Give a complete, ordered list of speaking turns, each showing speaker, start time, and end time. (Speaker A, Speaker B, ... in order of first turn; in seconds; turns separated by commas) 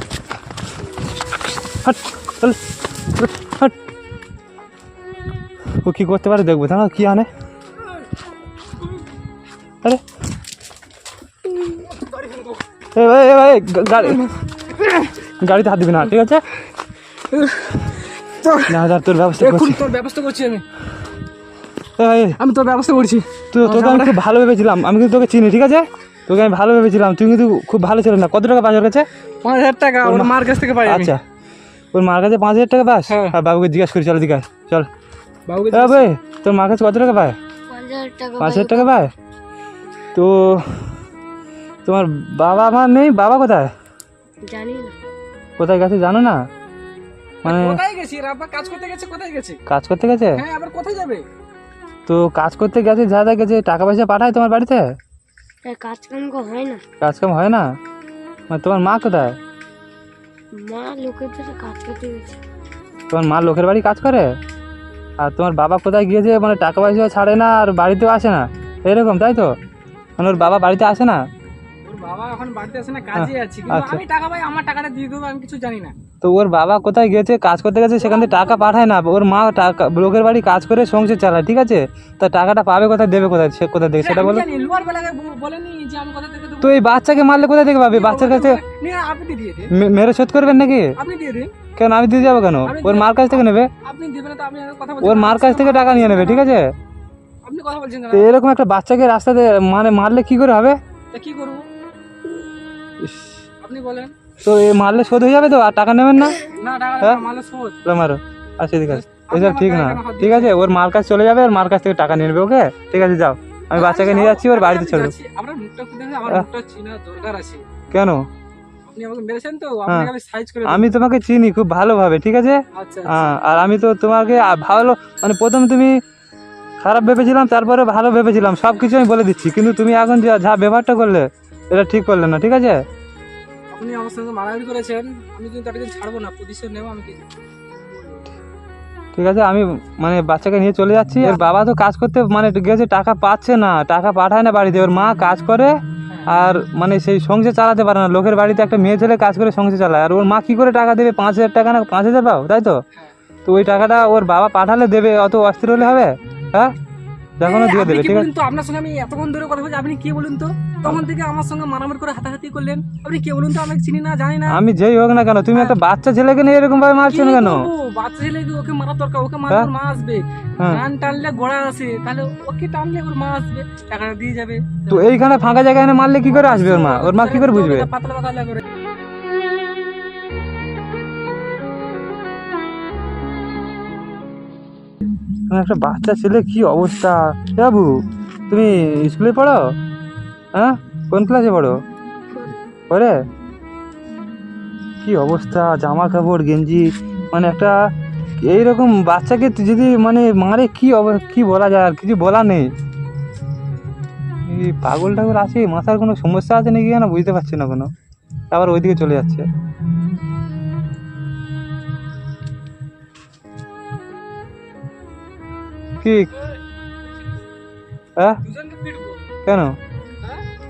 Speaker A: 1.8-3.7, Speaker A: 5.7-7.3, Speaker B: 12.1-12.5, Speaker A: 12.9-14.3, Speaker B: 14.8-15.1, Speaker A: 15.2-16.4, Speaker B: 17.3-18.8, Speaker A: 18.7-19.9, Speaker B: 19.4-20.6, Speaker A: 22.0-22.4, Speaker B: 22.4-24.2, Speaker A: 23.5-29.1, Speaker B: 29.4-31.1, Speaker A: 30.0-31.2, Speaker A: 31.9-34.9, Speaker B: 33.1-33.4, Speaker B: 35.5-36.1, Speaker A: 35.7-37.4, Speaker C: 37.7-38.9, Speaker A: 38.4-39.1, Speaker A: 40.1-41.0, Speaker A: 41.8-43.7, Speaker C: 44.4-45.0, Speaker A: 45.6-46.4, Speaker A: 47.4-47.8, Speaker B: 47.4-49.6, Speaker A: 49.7-50.4, Speaker B: 50.3-51.2, Speaker A: 52.0-54.9, Speaker C: 55.6-56.8, Speaker A: 57.0-57.7, Speaker A: 58.5-59.4, Speaker C: 60.5-62.4, Speaker A: 63.1-64.3, Speaker A: 65.2-69.5, Speaker A: 70.2-71.2, Speaker B: 71.8-75.9, Speaker A: 73.1-74.0, Speaker A: 76.2-84.5, Speaker B: 78.0-78.7, Speaker B: 84.0-86.8, Speaker A: 86.6-88.6, Speaker B: 87.9-89.7, Speaker A: 89.7-91.0, Speaker B: 91.0-91.5, Speaker A: 91.8-93.7, Speaker B: 92.6-96.5, Speaker A: 95.0-96.7, Speaker B: 97.4-98.3, Speaker A: 98.1-100.8, Speaker B: 101.1-101.7, Speaker A: 103.0-103.4, Speaker B: 103.6-104.1, Speaker A: 104.4-106.5, Speaker B: 106.5-107.8, Speaker A: 107.8-115.1, Speaker B: 108.9-110.6, Speaker B: 113.7-117.6, Speaker A: 117.9-118.2, Speaker B: 118.9-120.9, Speaker A: 119.9-120.1, Speaker A: 120.7-125.9, Speaker B: 122.7-123.4, Speaker A: 126.8-132.8, Speaker B: 133.7-137.3, Speaker B: 137.8-138.2, Speaker A: 139.1-145.7, Speaker B: 141.2-141.5, Speaker B: 146.1-146.4, Speaker A: 146.3-152.8, Speaker A: 153.4-156.7, Speaker A: 157.4-158.3, Speaker B: 157.4-164.6, Speaker A: 164.5-167.7, Speaker B: 165.5-165.8, Speaker B: 167.1-175.2, Speaker A: 170.6-170.8, Speaker A: 174.9-177.9, Speaker B: 176.3-178.6, Speaker A: 185.5-189.8, Speaker A: 190.5-191.8, Speaker A: 192.9-193.2, Speaker A: 195.0-197.7, Speaker A: 198.4-202.7, Speaker A: 204.4-207.9, Speaker A: 208.5-209.4, Speaker A: 216.0-216.3, Speaker A: 218.2-218.4, Speaker B: 218.4-219.2, Speaker A: 219.4-219.8